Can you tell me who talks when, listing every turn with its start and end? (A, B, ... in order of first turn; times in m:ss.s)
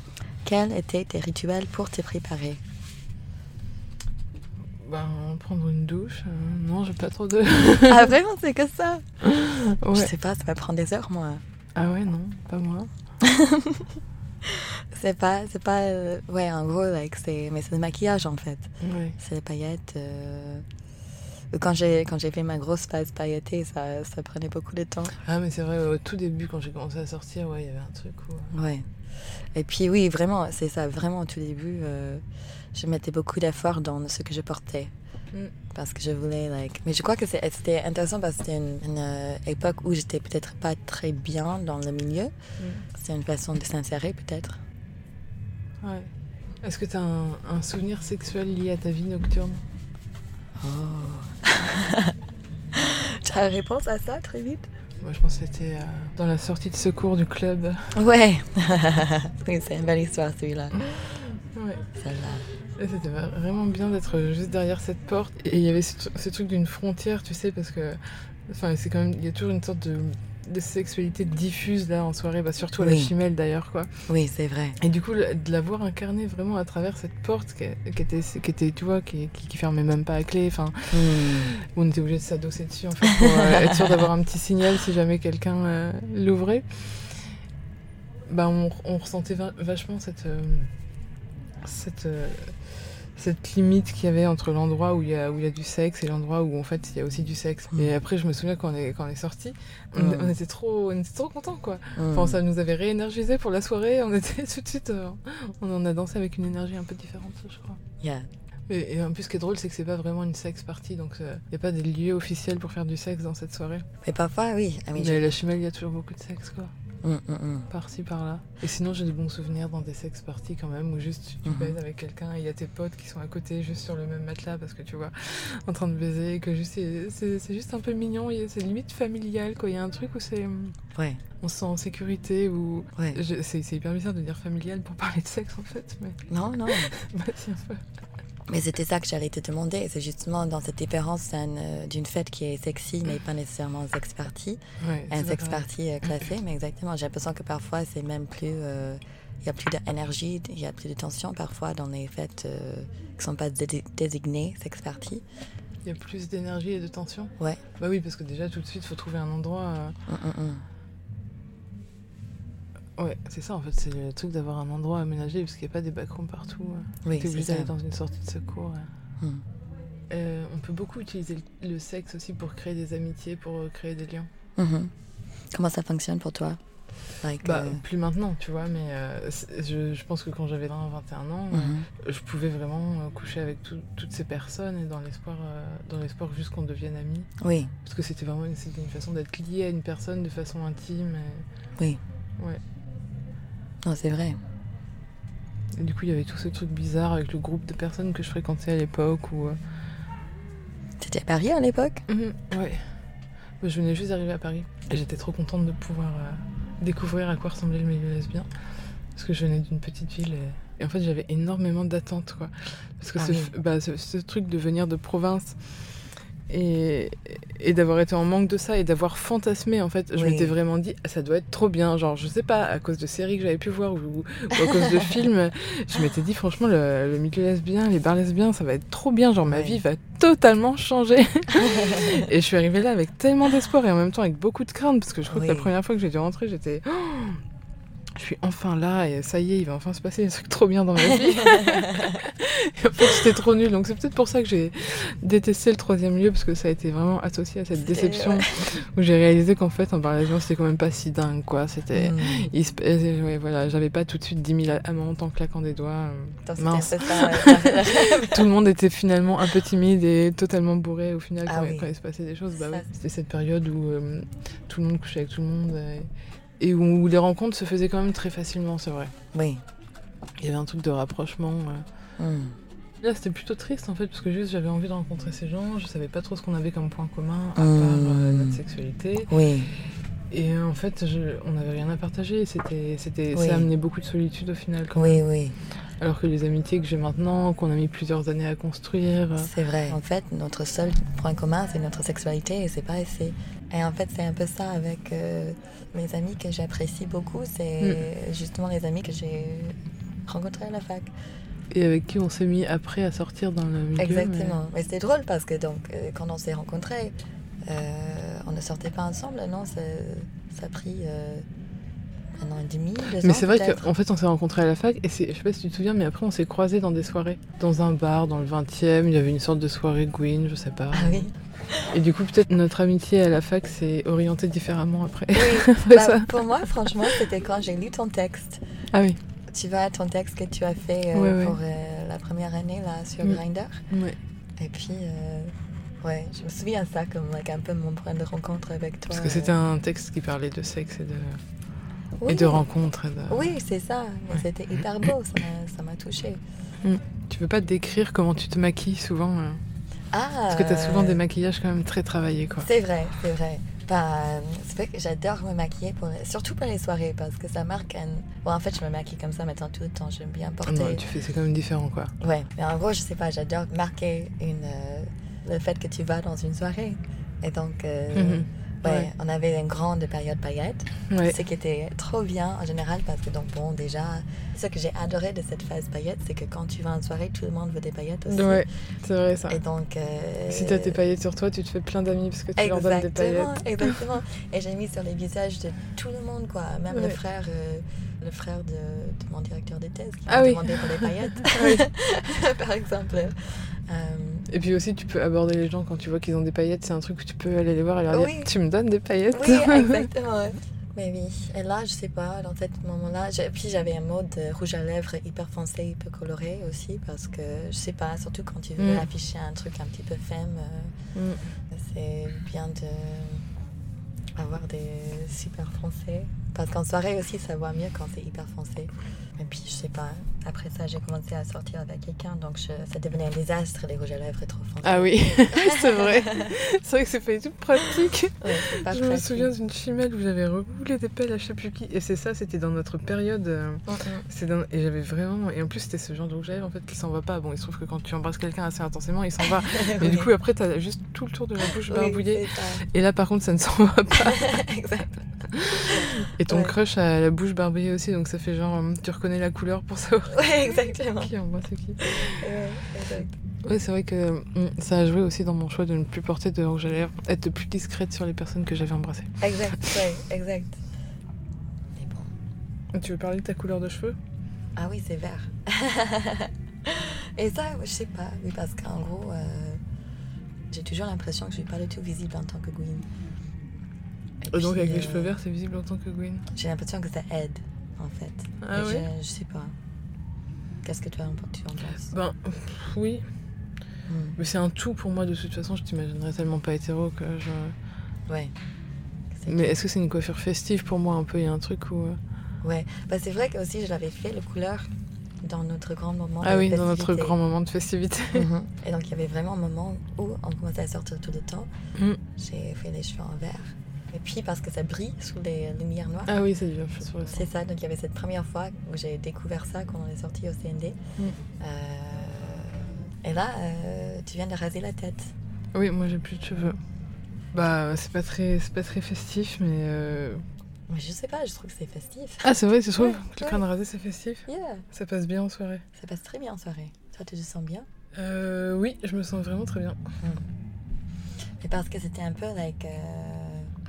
0:00.4-0:02.6 A
0:04.8-0:08.1 B
0:07.9-0:09.0 A
0:09.2-0:10.1 B
0:09.9-0:11.4 A
0:11.8-0:12.9 B
0:13.2-0:13.9 A
0:14.4-0:20.6 A
0:18.8-0:19.2 B
0:21.5-0:25.2 A
0:25.2-0:28.5 B
0:28.5-0:32.2 A
0:32.7-0:34.9 A
0:35.7-0:42.3 A
0:42.6-0:42.8 B
0:42.9-0:44.6 A
0:45.8-0:46.1 B
0:46.6-0:49.6 B
0:50.6-0:52.1 A
0:52.7-0:54.7 A
0:55.0-0:57.9 B
0:57.9-1:00.9 A
1:01.4-1:01.8 B
1:02.0-1:02.5 A
1:02.8-1:13.9 B
1:12.8-1:13.1 A
1:14.1-1:14.8 A
1:14.8-1:27.3 B
1:20.9-1:21.5 A
1:23.0-1:24.0 A
1:28.3-1:30.7 B
1:31.6-1:47.8 B
1:40.0-1:40.3 A
1:42.0-1:42.4 A
1:48.0-1:48.3 A
1:48.7-1:53.8 B
1:54.0-1:55.3 A
1:55.0-1:56.7 B
1:57.0-1:57.7 A
1:57.7-2:10.8 B
2:01.4-2:01.8 A
2:10.9-2:11.2 A
2:11.4-2:17.8 B
2:16.3-2:16.9 A
2:18.5-2:35.2 A
2:24.8-2:25.7 B
2:35.8-2:40.0 B
2:40.1-2:40.6 A
2:43.0-2:48.9 B
2:47.0-2:47.7 A
2:50.1-2:54.3 B
2:54.6-2:54.9 A
2:55.5-2:56.6 A
2:57.2-2:57.8 A
2:57.4-3:07.3 B
3:01.5-3:01.9 A
3:07.4-3:07.7 A
3:07.8-3:11.4 B
3:13.8-3:14.4 A
3:15.7-3:19.6 B
3:21.0-3:22.0 A
3:22.1-3:22.8 B
3:23.6-3:28.5 B
3:29.1-3:35.6 B
3:33.2-3:33.5 A
3:36.5-3:57.4 B
3:40.2-3:40.5 A
3:49.5-3:49.8 A
3:51.6-3:52.2 A
3:55.3-3:55.7 A
3:58.1-4:29.1 B
4:01.4-4:02.2 A
4:07.8-4:08.5 A
4:11.9-4:12.5 A
4:16.4-4:18.5 A
4:21.4-4:21.9 A
4:22.6-4:22.9 A
4:29.3-4:29.6 A
4:30.4-4:31.8 B
4:32.2-4:32.6 A
4:33.0-4:39.3 B
4:37.6-4:38.6 A
4:39.3-4:39.7 A
4:40.3-4:45.2 B
4:43.3-4:43.7 A
4:44.9-4:45.6 A
4:46.0-4:49.5 B
4:49.4-4:59.8 A
4:57.8-4:58.0 B
5:00.3-5:01.1 A
5:01.7-5:04.6 B
5:04.0-5:07.1 A
5:07.6-5:11.4 A
5:12.4-5:13.8 A
5:13.2-5:21.3 B
5:20.9-5:21.9 A
5:21.9-5:26.4 B
5:25.3-5:28.6 A
5:28.9-5:29.2 B
5:29.5-5:33.8 A
5:31.1-5:31.6 B
5:33.2-5:34.2 B
5:34.6-5:39.6 A
5:39.1-5:41.4 B
5:42.2-5:42.6 A
5:42.3-5:43.5 B
5:43.3-5:46.4 A
5:46.8-5:49.6 B
5:50.1-5:51.2 A
5:50.5-5:52.7 B
5:52.6-6:01.0 A
6:00.6-6:02.1 B
6:02.2-6:18.6 A
6:08.1-6:09.1 B
6:11.1-6:11.4 B
6:18.3-6:19.6 B
6:19.5-6:21.0 A
6:20.5-6:24.0 B
6:22.6-6:33.3 A
6:26.9-6:27.2 B
6:30.3-6:31.9 B
6:33.9-6:34.5 A
6:34.5-6:40.1 B
6:38.1-6:38.5 A
6:39.3-6:50.9 A
6:48.8-6:49.1 B
6:51.1-6:51.4 B
6:51.7-6:53.4 A
6:54.4-7:06.5 A
7:04.8-7:24.5 B
7:08.4-7:09.5 A
7:13.9-7:14.2 A
7:19.7-7:20.3 A
7:21.8-7:22.8 A
7:24.2-7:25.2 A
7:25.5-7:32.4 B
7:25.8-7:26.7 A
7:30.3-7:31.3 A
7:32.0-7:33.3 A
7:33.6-7:40.0 B
7:39.4-7:40.8 A
7:42.0-7:42.3 A
7:42.9-7:44.2 B
7:44.8-7:49.8 A
7:50.7-7:53.0 A
7:54.4-7:55.4 A
7:54.5-7:56.4 B
7:56.5-7:59.7 A
7:58.6-7:59.1 B
8:00.8-8:02.1 A
8:02.1-8:03.2 B
8:04.1-8:04.4 A
8:04.4-8:07.7 B
8:08.3-8:08.5 A
8:09.3-8:09.8 A
8:09.5-8:12.2 B
8:12.6-8:14.9 A
8:15.4-8:17.4 A
8:16.4-8:18.5 B
8:18.3-8:21.7 A
8:22.4-8:26.4 A
8:26.3-8:27.5 B
8:27.2-8:31.0 A
8:31.6-8:35.3 A
8:35.7-8:36.8 B
8:37.5-8:40.4 B
8:40.9-8:43.6 A
8:42.4-8:45.8 B
8:44.5-8:44.8 A
8:46.0-8:47.9 A
8:48.1-8:50.0 B
8:50.2-8:50.4 A
8:51.6-8:53.7 A